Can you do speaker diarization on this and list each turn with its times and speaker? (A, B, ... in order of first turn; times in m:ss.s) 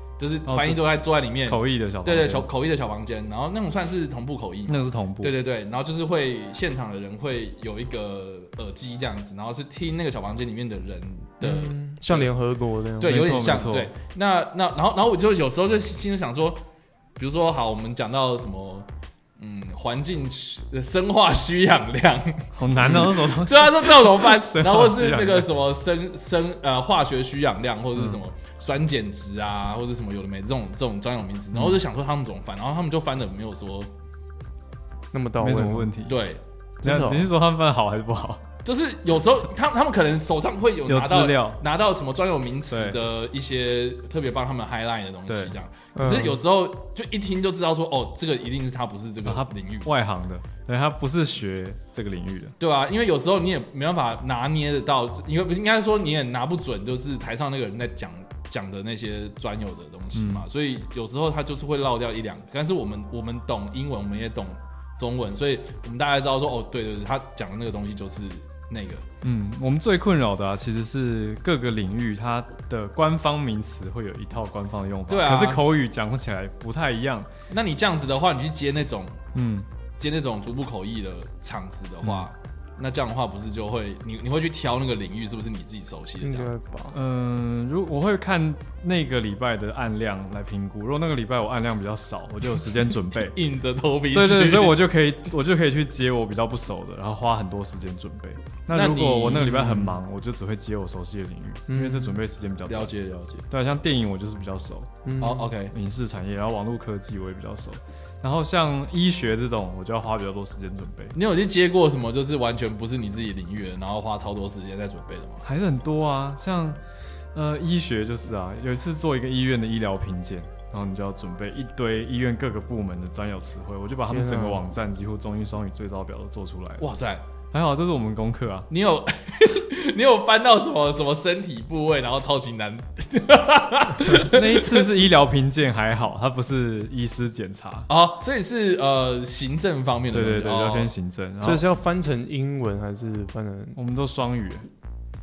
0:00.2-0:12.3 A
0:00.5-0:00.9 B
0:01.5-0:02.5 B
0:04.7-0:05.4 B
0:11.4-0:13.2 C
0:13.0-0:16.6 A
0:13.0-0:13.9 B
0:17.2-0:18.9 A
0:19.4-0:33.9 A
0:22.5-0:25.5 B
0:35.1-0:35.9 C
0:35.4-0:36.2 B
0:36.1-0:36.4 A
0:36.8-0:37.3 C
0:36.8-0:38.4 B
0:38.6-0:49.9 A
0:40.9-0:41.6 B
0:42.7-0:43.0 B
0:45.3-0:45.6 B
0:45.9-0:46.4 C
0:49.2-0:52.6 B
0:52.6-1:09.1 A
1:00.1-1:00.4 B
1:09.2-1:17.3 B
1:15.1-1:15.6 A
1:17.5-1:19.2 A
1:19.3-1:19.7 B
1:20.0-1:26.5 A
1:22.0-1:22.3 B
1:26.2-1:27.0 C
1:26.9-1:33.4 B
1:33.3-1:34.8 A
1:34.1-1:42.9 B
1:38.7-1:39.9 A
1:41.7-1:42.2 C
1:42.7-1:43.4 A
1:43.5-1:44.9 B
1:45.0-1:45.5 C
1:45.2-1:45.7 A
1:45.7-1:51.1 B
1:51.1-1:55.4 A
1:55.4-1:56.8 B
1:57.3-2:06.8 B
2:04.1-2:04.6 C
2:06.8-2:07.2 A
2:07.5-2:08.7 B
2:08.7-2:14.9 A
2:14.1-2:17.9 B
2:17.9-2:20.9 A
2:20.1-2:21.6 B
2:21.4-2:23.8 C
2:23.8-2:24.7 B